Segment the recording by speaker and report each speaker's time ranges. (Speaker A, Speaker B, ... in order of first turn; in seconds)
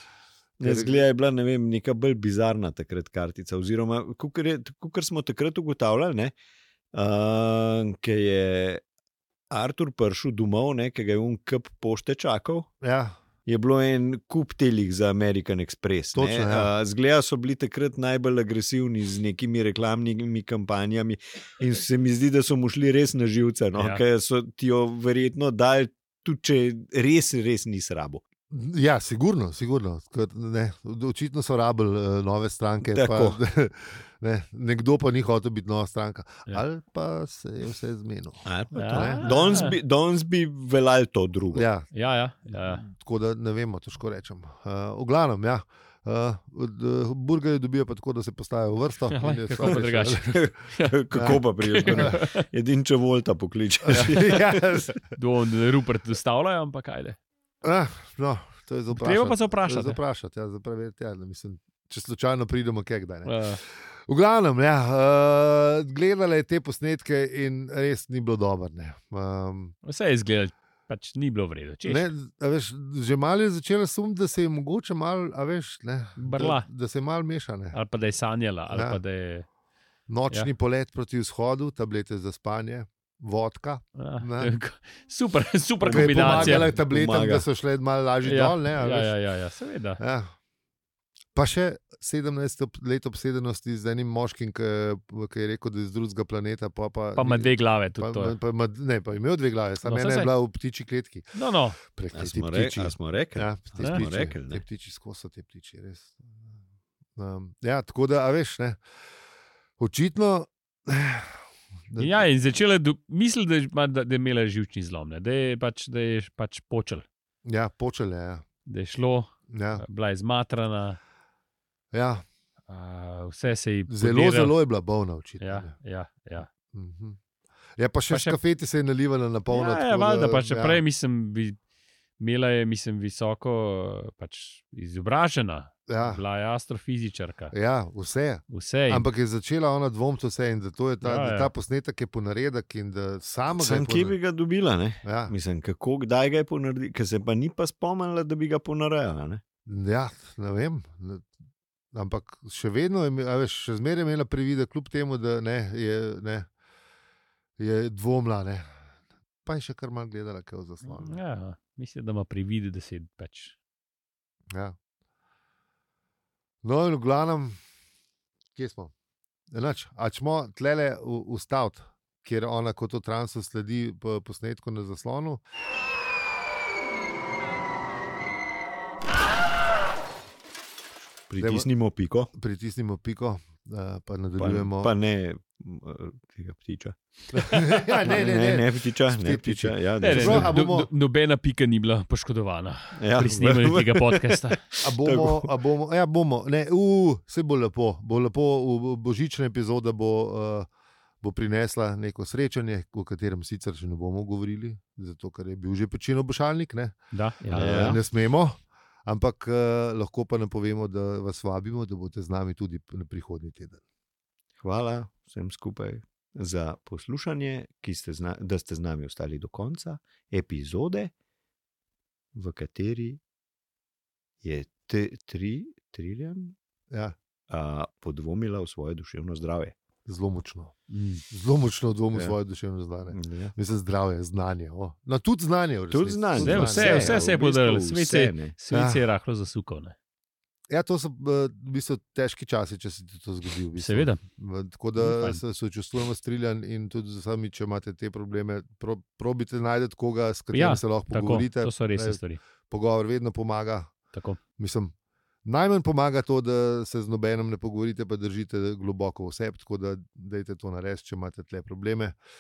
Speaker A: 0.6-1.0, 12.8-13.2, 16.1-16.7, 28.5-39.6, 41.5-41.9, 42.5-50.4, 51.1-52.2, 53.9-55.0, 57.6-69.7, 71.8-77.8, 78.7-79.0, 80.1-84.5, 85.9-89.1, 90.0-90.3, 91.3-106.2, 107.2-108.8, 109.8-111.4, 111.9-112.2, 117.5-118.5, 119.5-119.8, 121.9-122.2, 123.9-125.7, 126.7-127.2, 127.8-130.8, 135.9-136.2, 137.5-144.2, 145.0-145.3, 149.7-151.3, 151.9-156.5, 157.6-158.6, 159.4-161.2, 164.5-164.8, 166.6-167.6, 168.6-168.9, 169.5-175.4, 181.4-181.7, 182.3-184.9, 187.3-190.9, 194.8-200.7, 201.2-213.8, 226.9-227.2, 230.1-230.7, 231.3-237.3, 238.7-239.0, 240.7-253.9, 254.6-254.9, 255.4-262.2
Speaker B: 0.6-6.3, 6.9-8.8, 9.5-12.7, 13.5-28.2, 32.9-33.4, 38.5-41.7, 50.3-54.6, 85.8-87.5, 102.1-104.6, 143.6-149.4, 181.3-182.3, 184.4-190.6, 193.0-195.5, 207.6-208.0, 214.6-221.1, 222.3-223.2, 224.4-226.6, 227.5-229.8, 233.1-233.5, 235.9-238.6
Speaker C: 23.8-24.0, 38.8-39.8, 41.9-42.9, 49.1-51.0, 51.6-52.4, 53.9-54.2, 55.1-57.2, 58.9-60.0, 63.2-63.6, 69.8-72.1, 76.2-76.7, 77.7-79.5, 84.0-86.7, 88.2-90.0, 97.2-98.4, 99.8-100.3, 101.3-101.8, 103.8-104.0, 112.0-117.0, 118.7-121.0, 122.7-124.6, 125.4-126.5, 128.1-128.4, 129.5-131.6, 132.2-137.5, 138.5-139.1, 141.0-141.5, 160.8-163.6, 190.0-194.6, 207.1-208.0, 230.9-231.2, 236.4-239.9, 243.8-244.2, 245.0-245.4, 250.5-252.4, 254.1-254.4